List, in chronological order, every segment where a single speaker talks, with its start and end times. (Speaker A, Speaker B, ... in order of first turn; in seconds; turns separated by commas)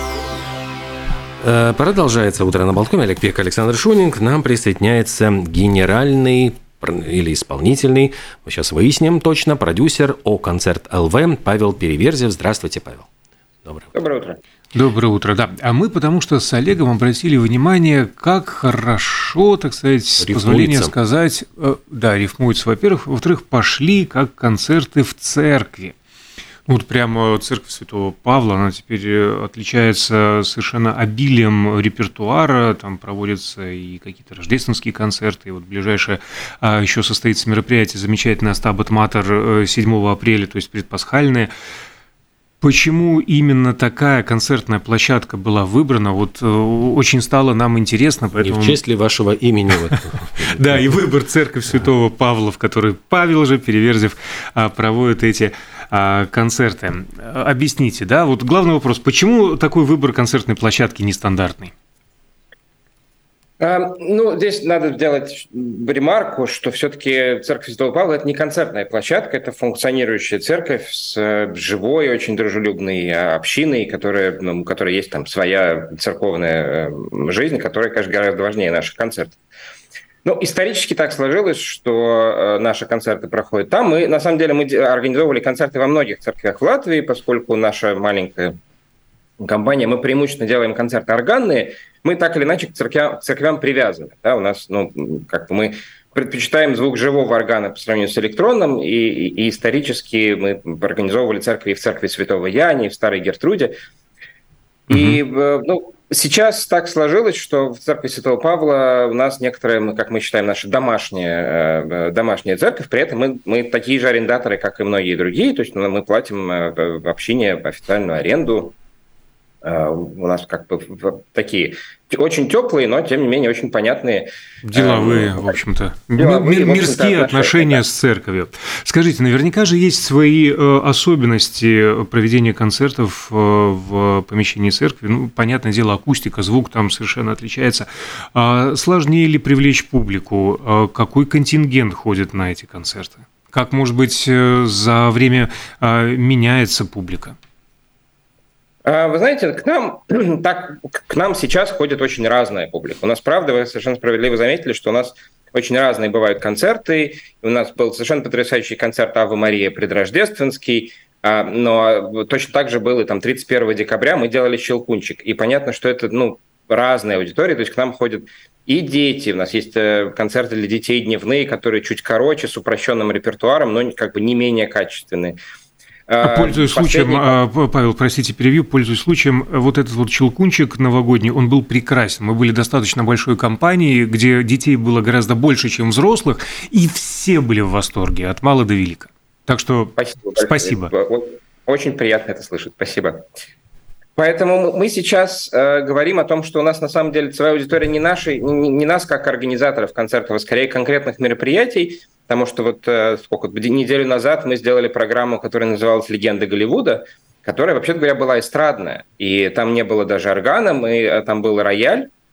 Speaker A: 1.4-13.1, Speaker B: 13.9-14.4, Speaker C: 14.7-25.9, Speaker A: 20.2-20.9, Speaker C: 26.7-41.5, Speaker C: 42.6-48.8, Speaker A: 48.4-50.8, Speaker C: 50.5-61.7, Speaker B: 63.6-79.4, Speaker B: 80.2-88.5, Speaker B: 89.4-103.7, Speaker C: 104.9-105.2, Speaker B: 104.9-118.8, Speaker B: 119.6-125.6, Speaker C: 124.6-147.3, Speaker B: 126.2-127.8, Speaker B: 148.8-175.4, Speaker B: 176.1-177.4, Speaker C: 176.2-190.9, Speaker B: 190.0-193.2, Speaker B: 194.2-212.1